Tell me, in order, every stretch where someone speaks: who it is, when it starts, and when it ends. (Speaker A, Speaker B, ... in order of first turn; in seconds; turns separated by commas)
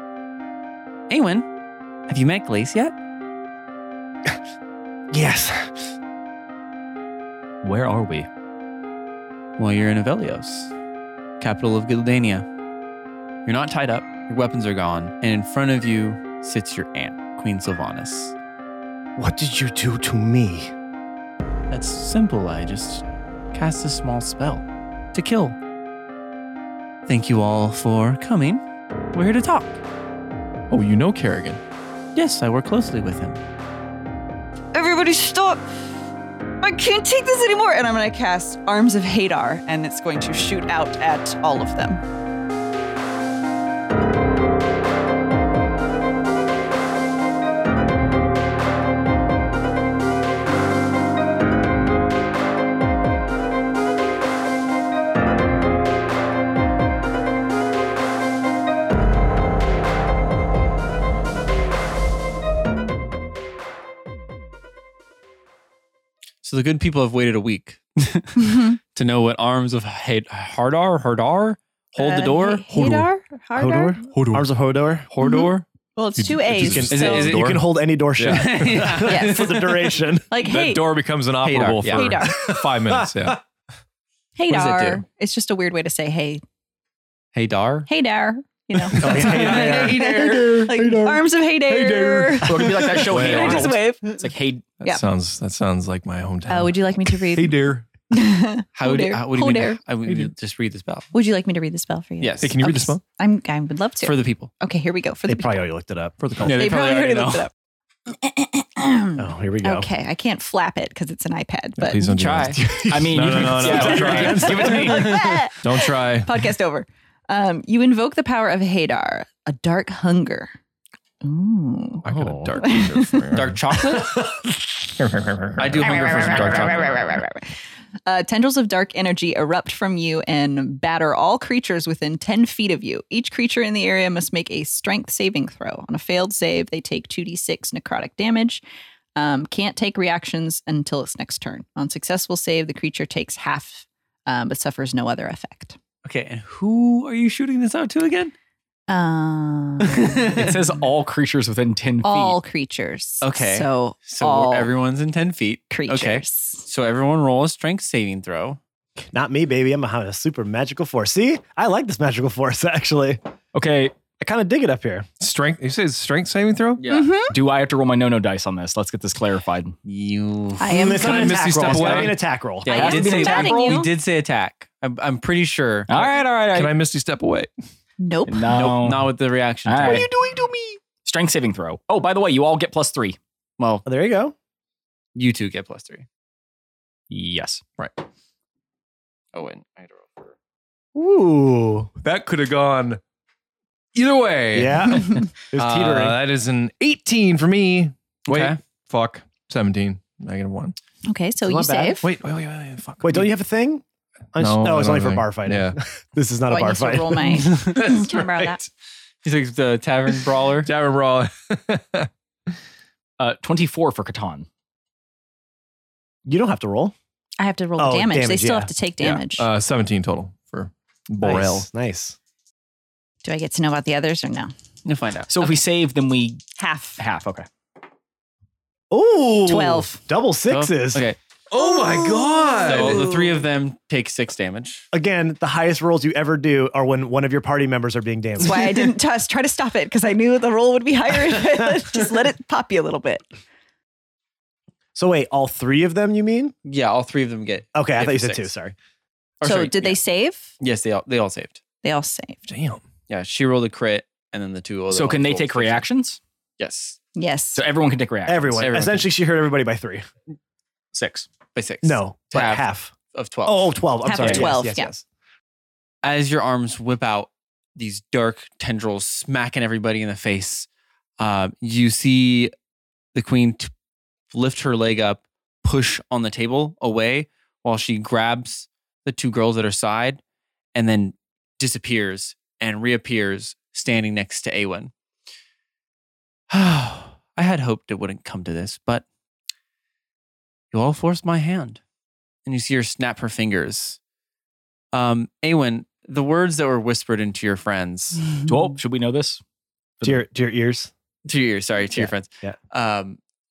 Speaker A: 1.1-1.4, Speaker A: 2.1-2.9, Speaker B: 5.1-5.7, Speaker C: 7.6-8.3, Speaker A: 9.6-10.7, Speaker A: 11.4-12.4, Speaker A: 13.4-18.3, Speaker B: 19.2-20.7, Speaker A: 21.7-25.6, Speaker A: 27.1-29.8, Speaker D: 30.7-31.6, Speaker A: 32.1-33.4, Speaker E: 34.7-35.7, Speaker E: 36.6-42.0, Speaker A: 66.4-72.8, Speaker E: 68.4-68.8, Speaker E: 72.0-74.1, Speaker B: 73.5-75.1, Speaker D: 74.1-74.5, Speaker A: 75.1-75.7, Speaker E: 75.2-77.4, Speaker D: 76.2-77.6, Speaker B: 76.5-80.3, Speaker A: 76.9-77.6, Speaker A: 78.2-79.7, Speaker D: 78.2-79.1, Speaker E: 79.0-81.0, Speaker D: 80.4-83.4, Speaker A: 81.4-82.2, Speaker E: 81.9-82.5, Speaker E: 84.3-86.4, Speaker A: 84.5-85.0, Speaker A: 87.3-87.9, Speaker E: 87.9-94.3, Speaker B: 88.9-91.2, Speaker D: 89.0-90.3, Speaker C: 89.0-90.7, Speaker D: 91.7-93.8, Speaker C: 92.4-94.8, Speaker D: 94.8-97.9, Speaker E: 96.5-99.8, Speaker A: 98.8-101.1, Speaker E: 101.1-105.6, Speaker A: 102.2-102.5, Speaker D: 102.4-103.0, Speaker A: 104.0-104.5, Speaker B: 105.3-106.5, Speaker D: 106.2-106.7, Speaker A: 106.4-107.5, Speaker E: 106.4-107.5, Speaker E: 108.1-112.1, Speaker B: 109.2-109.9, Speaker D: 111.8-116.4, Speaker A: 112.0-112.6, Speaker B: 112.5-115.1, Speaker C: 112.9-115.3, Speaker E: 114.5-120.5, Speaker E: 121.2-122.0, Speaker D: 122.0-124.2, Speaker C: 122.1-122.5, Speaker E: 122.6-123.4, Speaker A: 123.3-124.1, Speaker D: 124.9-127.0, Speaker A: 125.6-127.2, Speaker E: 125.8-127.5, Speaker E: 128.1-138.6, Speaker E: 139.2-145.8, Speaker A: 146.0-148.3, Speaker E: 148.9-150.3, Speaker A: 149.8-150.6, Speaker C: 150.3-152.4, Speaker E: 152.0-154.7, Speaker A: 153.2-158.6, Speaker E: 155.7-156.7, Speaker B: 159.1-163.2, Speaker C: 163.5-163.9, Speaker B: 164.2-165.1, Speaker D: 165.2-166.8, Speaker A: 166.8-167.2, Speaker E: 166.8-167.3, Speaker C: 167.3-169.8, Speaker A: 169.8-172.0, Speaker E: 170.6-171.5, Speaker B: 170.7-172.7, Speaker D: 170.9-172.2, Speaker A: 172.6-176.1, Speaker C: 172.6-173.8, Speaker E: 172.7-173.9, Speaker C: 175.9-176.7, Speaker D: 176.5-177.5, Speaker E: 178.0-178.5, Speaker C: 178.3-179.1, Speaker A: 178.5-180.1, Speaker C: 179.6-180.2, Speaker C: 181.0-183.2, Speaker A: 183.6-183.8, Speaker B: 183.8-184.3, Speaker A: 185.1-186.1, Speaker C: 187.1-187.6, Speaker A: 189.3-190.3, Speaker B: 190.9-191.9, Speaker D: 192.0-193.0, Speaker D: 193.9-200.8, Speaker B: 194.5-196.2, Speaker A: 198.3-198.6, Speaker E: 201.0-202.1, Speaker B: 201.5-201.9, Speaker D: 202.0-203.3, Speaker B: 203.0-203.8, Speaker B: 204.3-207.3, Speaker D: 204.4-205.8, Speaker E: 206.5-208.6, Speaker A: 207.4-207.9, Speaker D: 207.8-208.5, Speaker A: 209.2-210.7, Speaker D: 210.6-212.1, Speaker C: 213.2-214.5, Speaker B: 216.2-216.9, Speaker E: 217.4-219.5, Speaker B: 217.8-218.7, Speaker D: 219.0-221.7, Speaker B: 221.2-222.2, Speaker E: 223.2-224.5, Speaker A: 224.8-225.6, Speaker C: 225.3-226.4, Speaker E: 226.6-227.0, Speaker C: 227.0-227.5, Speaker B: 228.9-231.1, Speaker E: 229.4-230.0, Speaker A: 230.5-231.2, Speaker D: 231.5-233.2, Speaker E: 231.6-233.2, Speaker A: 232.6-234.8, Speaker B: 234.9-238.6, Speaker E: 238.4-243.2, Speaker B: 244.9-246.5, Speaker A: 246.6-248.5, Speaker B: 247.7-248.7, Speaker A: 249.4-250.0, Speaker E: 249.4-250.5, Speaker A: 250.6-251.6, Speaker E: 251.8-252.4, Speaker D: 252.4-252.8, Speaker A: 253.1-255.8, Speaker C: 254.9-256.2, Speaker A: 256.6-257.0, Speaker E: 257.1-257.6, Speaker C: 257.5-258.8, Speaker B: 258.2-260.1, Speaker A: 258.6-259.1, Speaker C: 260.9-261.3, Speaker A: 261.5-263.8, Speaker B: 261.8-262.9, Speaker B: 263.4-264.9, Speaker E: 264.0-264.9, Speaker C: 264.2-264.5, Speaker A: 266.0-270.7, Speaker A: 271.2-272.5, Speaker A: 273.1-273.7, Speaker A: 274.3-280.2, Speaker A: 280.7-284.9, Speaker A: 286.5-289.0, Speaker A: 290.7-291.8, Speaker A: 292.4-294.0, Speaker A: 294.9-298.2, Speaker C: 298.5-299.4, Speaker B: 300.0-300.9, Speaker A: 301.2-303.2, Speaker B: 301.9-302.6